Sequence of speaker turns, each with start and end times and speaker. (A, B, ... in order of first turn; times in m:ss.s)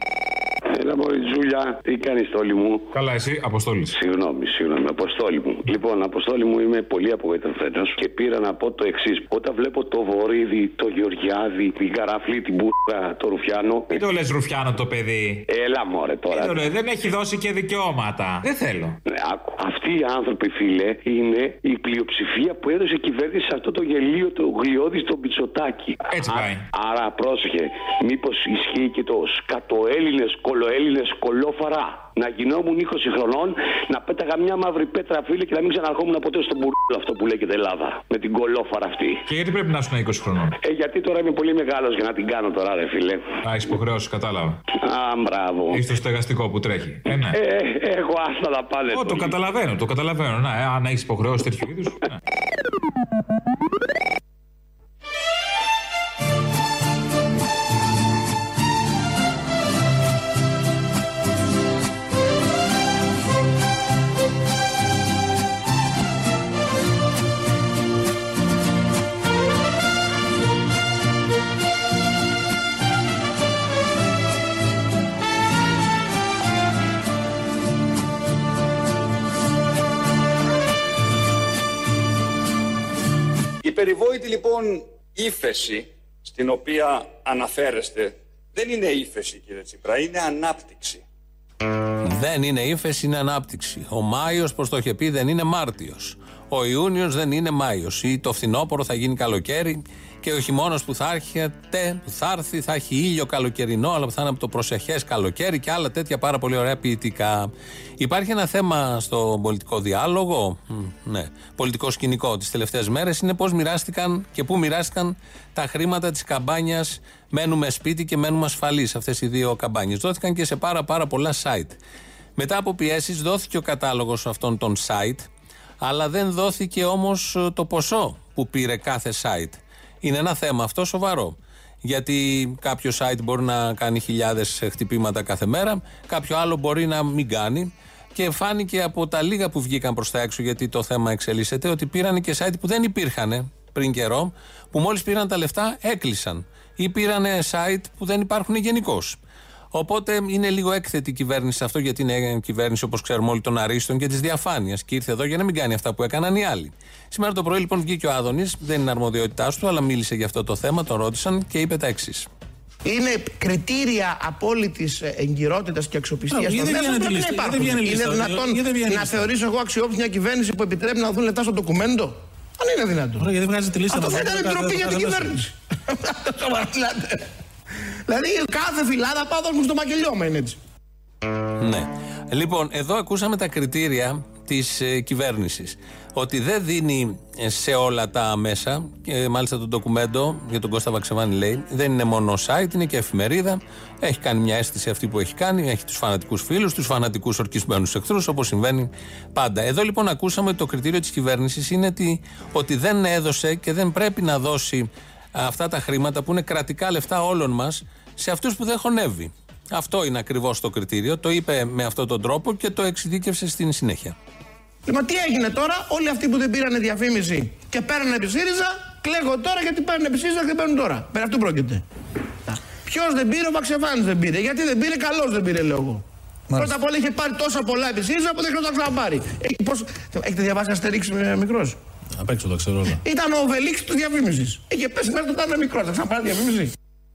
0:00.6-0:02.9 A
0:02.9-0:03.9 B
0:03.9-0:14.0 A
0:13.9-0:15.4 B
0:15.5-0:16.6 A
0:16.3-0:19.0 B
0:19.1-0:39.2 A
0:26.1-0:26.6 B
0:39.3-0:40.6 B
0:40.6-0:43.2 A
0:43.5-0:44.6 B
0:44.8-0:45.8 A
0:45.7-0:47.4 B
0:47.3-0:49.3 A
0:48.9-0:52.2 B
1:23.6-1:31.0 C
1:32.0-2:01.8 D
2:02.4-2:05.3 D
2:05.8-2:29.2 D
2:29.7-2:42.3 D
2:42.9-2:53.3 E
2:46.3-2:49.3 F
2:53.2-2:55.3 F
2:53.9-2:57.2 E
2:58.1-3:00.6 E
3:01.6-3:34.2 D
3:34.9-3:41.8 E
3:42.5-3:46.0 E
3:46.5-3:51.8 E
3:52.2-3:53.0 F
3:53.0-3:56.7 E